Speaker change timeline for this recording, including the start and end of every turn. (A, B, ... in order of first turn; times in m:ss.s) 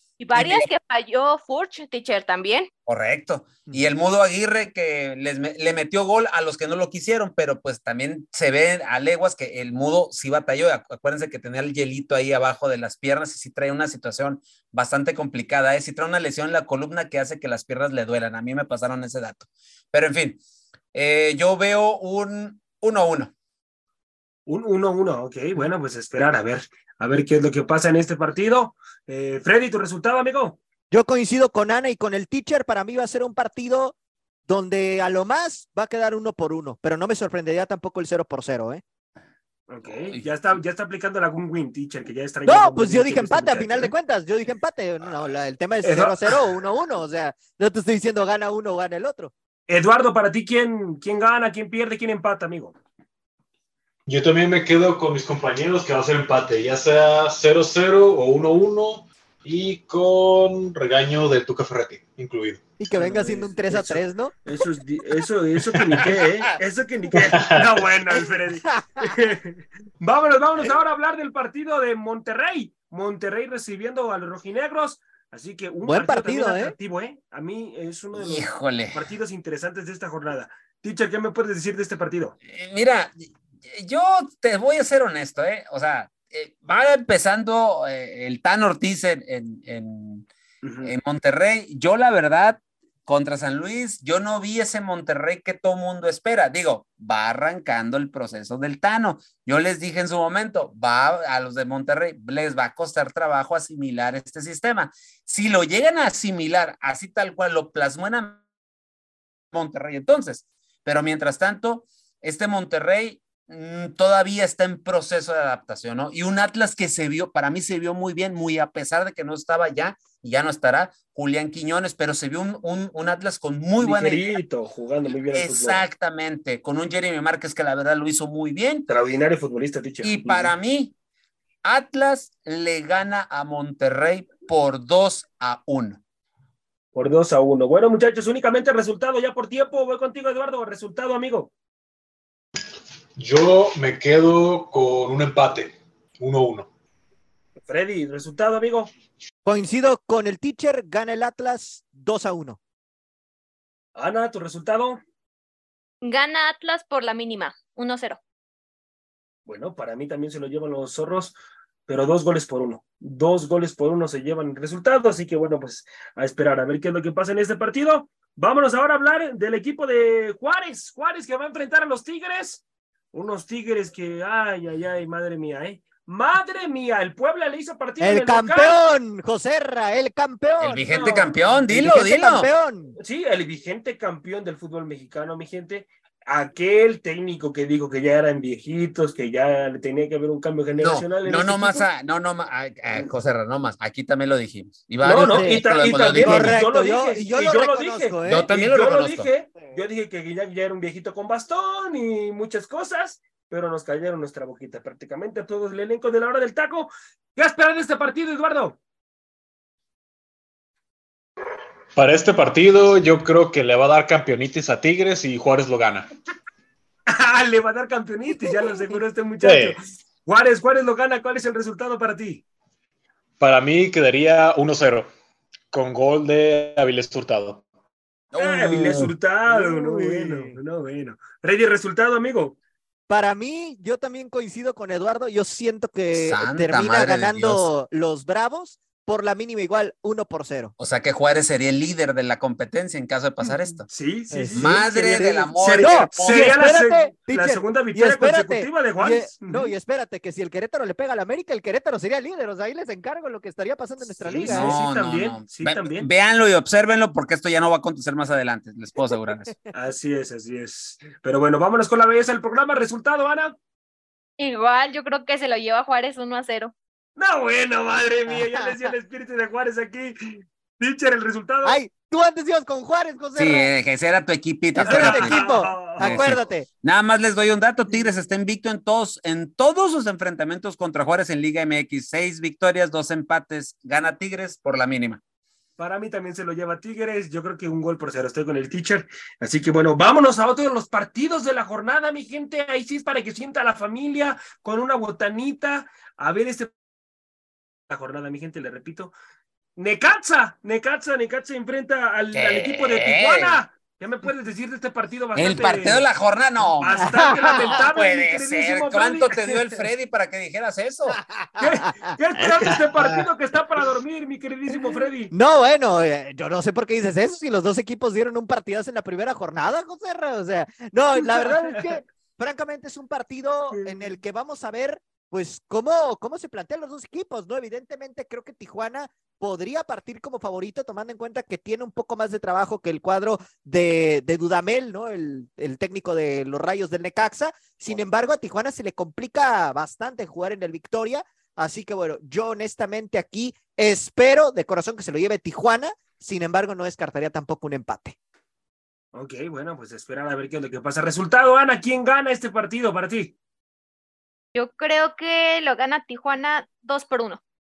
0:00.2-0:02.7 A
0:00.3-0:00.7 B
0:02.8-0:20.4 B
0:20.9-0:23.3 B
0:24.5-0:30.6 C
0:30.9-0:33.9 D
0:34.5-0:38.8 D
0:39.7-0:43.9 C
0:42.4-0:49.3 D
0:45.8-0:46.4 C
0:49.7-0:52.7 C
0:54.0-1:02.6 E
1:02.8-1:04.3 D
1:03.0-1:22.3 C
1:07.2-1:07.7 E
1:08.5-1:09.1 D
1:15.8-1:16.7 D
1:18.1-1:19.1 B
1:22.4-1:30.3 B
1:30.6-1:30.9 C
1:30.8-1:48.4 B
1:49.5-2:04.4 B
2:03.8-2:05.8 C
2:05.3-2:08.9 B
2:08.9-2:10.5 C
2:10.0-2:10.9 B
2:11.6-2:16.0 B
2:16.9-2:21.5 C
2:23.2-2:26.7 E
2:27.6-2:28.9 C
2:29.4-2:32.6 D
2:34.0-2:35.0 C
2:36.0-2:38.2 A
2:39.4-2:41.3 C
2:41.9-2:52.6 C
2:53.1-2:58.8 C
2:58.0-3:01.1 D
3:00.6-3:02.5 B
3:00.9-3:01.4 C
3:01.7-3:03.0 D
3:03.0-3:11.9 C
3:10.8-3:16.6 B
3:15.0-3:28.8 C
3:15.2-3:18.5 D
3:18.2-3:19.3 B
3:31.9-3:36.1 E
3:37.1-3:42.4 C
3:39.4-3:39.8 E
3:43.4-3:45.1 E
3:45.7-3:47.6 E
3:48.3-3:49.1 B
3:48.4-3:52.6 C
3:49.5-3:50.6 D
3:53.1-4:00.7 D
3:56.1-3:57.7 B
4:00.8-4:03.9 B
4:03.9-4:09.7 C
4:04.3-4:14.7 D
4:04.5-4:06.6 B
4:14.2-4:16.1 C
4:14.4-4:19.5 B
4:19.7-4:23.6 C
4:24.4-4:26.7 A
4:27.2-4:31.8 C
4:28.3-4:28.9 D
4:31.6-4:33.7 D
4:33.4-4:35.4 B
4:34.7-4:36.7 D
4:34.8-4:36.4 C
4:36.0-4:45.2 B
4:45.8-4:56.7 C
4:57.9-4:59.1 C
4:59.8-5:06.1 C
5:02.3-5:03.6 B
5:05.3-5:11.2 B
5:06.7-5:09.8 C
5:07.0-5:07.8 D
5:11.1-5:12.1 D
5:11.6-5:15.3 C
5:12.7-5:13.3 E
5:15.3-5:48.2 D
5:21.3-5:21.9 C
5:23.7-5:24.1 C
5:49.1-5:53.3 C
5:54.5-5:57.4 A